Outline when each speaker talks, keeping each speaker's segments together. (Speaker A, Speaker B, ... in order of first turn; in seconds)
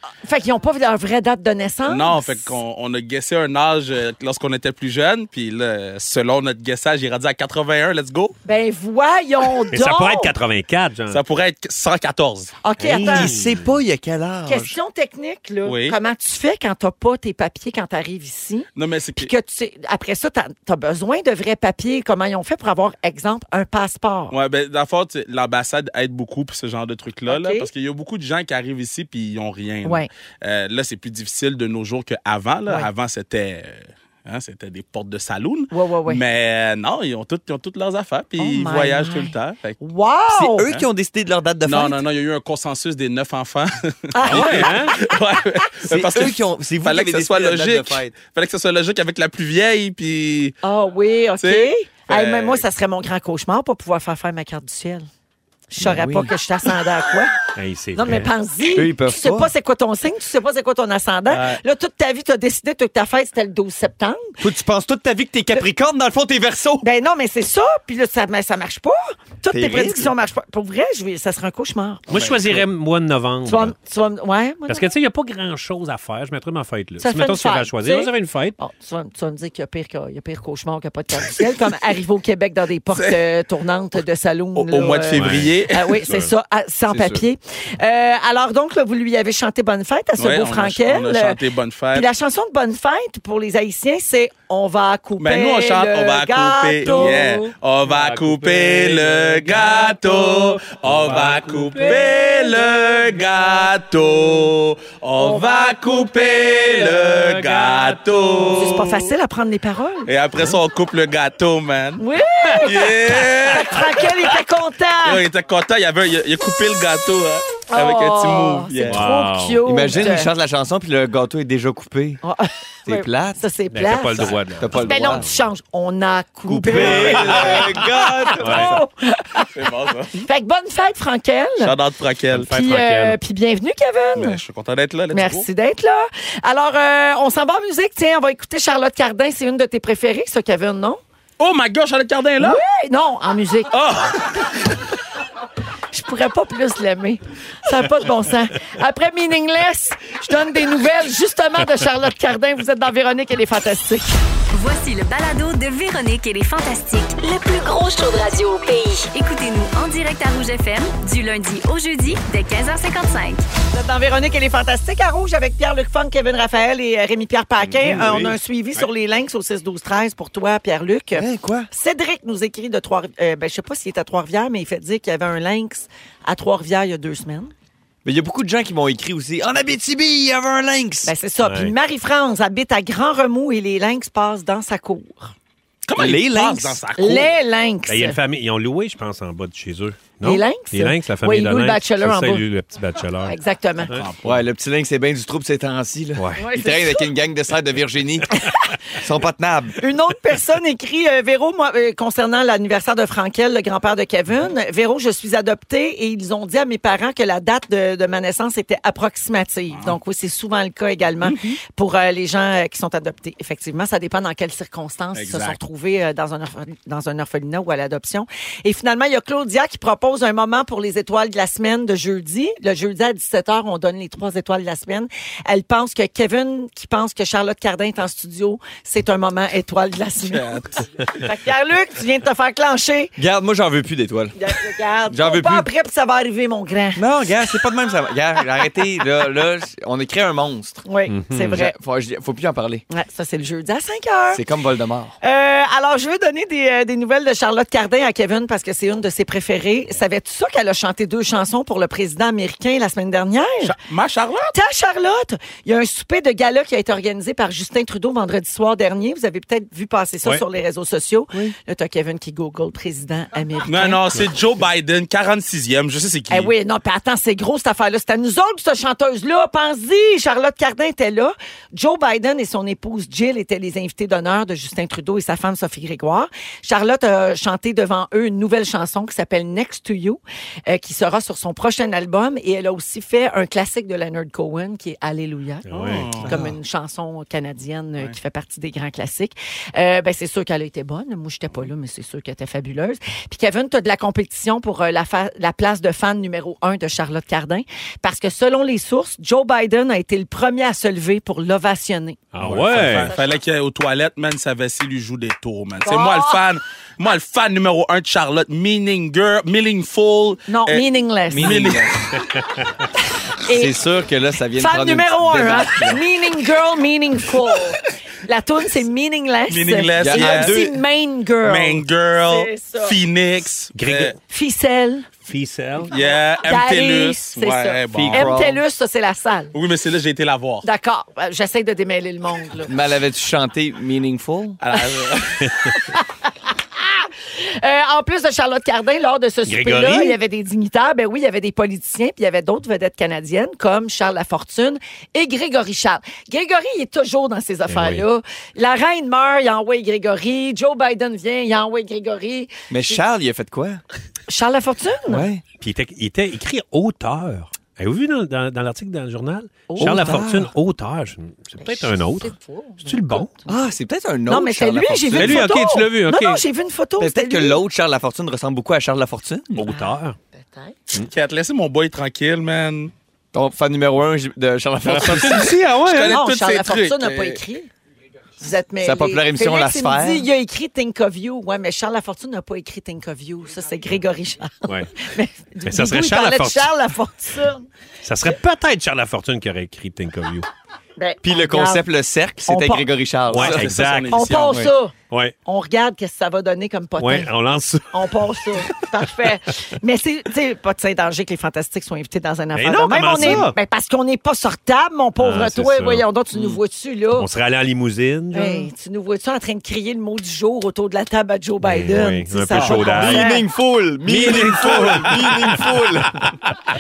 Speaker A: 0.2-2.6, 8.4-10.3, 12.6-13.4, 14.4-24.3, 27.3-27.7, 35.7-36.2, 38.4-40.7, 44.1-45.0, 50.6-55.1, 55.7-57.4, 57.9-64.4, 66.8-72.0, 73.5-74.9, 77.0-91.4, 91.9-97.2, 105.2-105.7, 108.5-110.1, 112.0-115.2, 117.7-120.3, 122.2-129.5, 130.1-131.7, 132.4-134.4, 135.1-141.0, 142.4-143.7, 145.9-154.1, 163.7-177.5, 181.0-185.3, 186.9-188.2, 190.2-192.4, 193.2-193.9, 196.4-197.1, 199.8-233.1, 234.3-237.0, 240.8-241.7, 242.9-244.4, 245.2-253.7, 254.5-264.0, 266.3-302.2, 302.8-303.3, 305.8-306.4, 310.5-311.7, 313.4-313.7, 314.6-323.0, 324.3-325.1, 326.4-329.5, 330.6-332.7, 335.7-353.0, 354.3-355.2, 359.7-360.2, 361.6-363.5, 364.2-367.6, 369.7-370.8, 376.0-377.7, 378.4-387.6, 391.0-391.9, 392.4-392.9, 394.1-394.9, 395.4-397.3, 397.9-407.3, 408.3-413.4
Speaker B: 1.9-8.3, 11.1-12.6, 15.6-15.9, 18.8-19.3, 24.3-39.8, 41.6-50.6, 51.4-52.6, 61.3-61.6, 82.9-83.2, 84.5-86.0, 90.2-92.1, 95.2-109.0, 110.1-112.0, 112.6-114.3, 115.0-119.0, 126.9-127.6, 129.5-130.2, 131.6-132.5, 134.2-135.5, 141.4-142.6, 143.7-144.7, 185.8-187.3, 193.9-194.2, 211.2-211.6, 215.1-215.6, 230.3-230.8, 253.6-254.5, 263.7-266.5, 285.8-286.3, 302.4-310.9, 311.4-311.9, 319.5-320.6, 321.4-324.1, 325.9-328.3, 329.5-330.6, 334.6-335.5, 370.9-372.9, 375.8-377.4, 393.4-394.7
Speaker C: 9.7-11.2, 12.9-13.4, 44.3-45.0, 57.5-58.3, 72.1-73.7, 74.7-78.5, 85.1-86.3, 96.8-102.4, 106.8-108.8, 118.9-119.6, 123.7-125.2, 128.4-128.8, 132.3-133.2, 167.8-168.8, 181.4-181.7, 187.9-193.3, 193.9-194.3, 196.2-196.4, 241.1-241.6, 285.7-286.4, 302.3-303.1, 323.7-324.1, 325.2-325.9, 339.4-340.2, 347.7-348.0, 355.6-363.3, 365.1-366.4, 369.6-370.2, 374.9-376.2, 385.6-386.8, 388.0-390.4, 393.3-395.3, 397.0-398.0, 402.5-403.6, 405.2-406.1, 407.1-408.7, 411.6-413.4, 414.1-415.6
Speaker D: 12.8-14.7, 40.3-42.0, 45.9-48.1, 55.8-56.3, 58.7-59.5, 64.4-66.8, 69.5-70.1, 86.9-87.2, 119.7-122.2, 122.8-123.5, 124.2-125.2, 126.5-128.8, 167.8-168.3, 171.1-171.7, 178.0-181.1, 185.9-186.8, 194.2-198.3, 198.9-199.8, 233.2-234.4, 235.1-235.7, 236.9-240.8, 241.4-242.8, 244.3-245.2, 311.3-311.9, 313.5-316.0, 320.0-320.8, 327.9-328.6, 332.6-334.6, 352.7-353.8, 355.1-355.4, 359.8-360.5, 363.5-365.6, 367.0-369.7, 373.3-375.6, 378.8-380.3, 391.2-393.7, 412.6-416.3
Speaker E: 154.5-163.4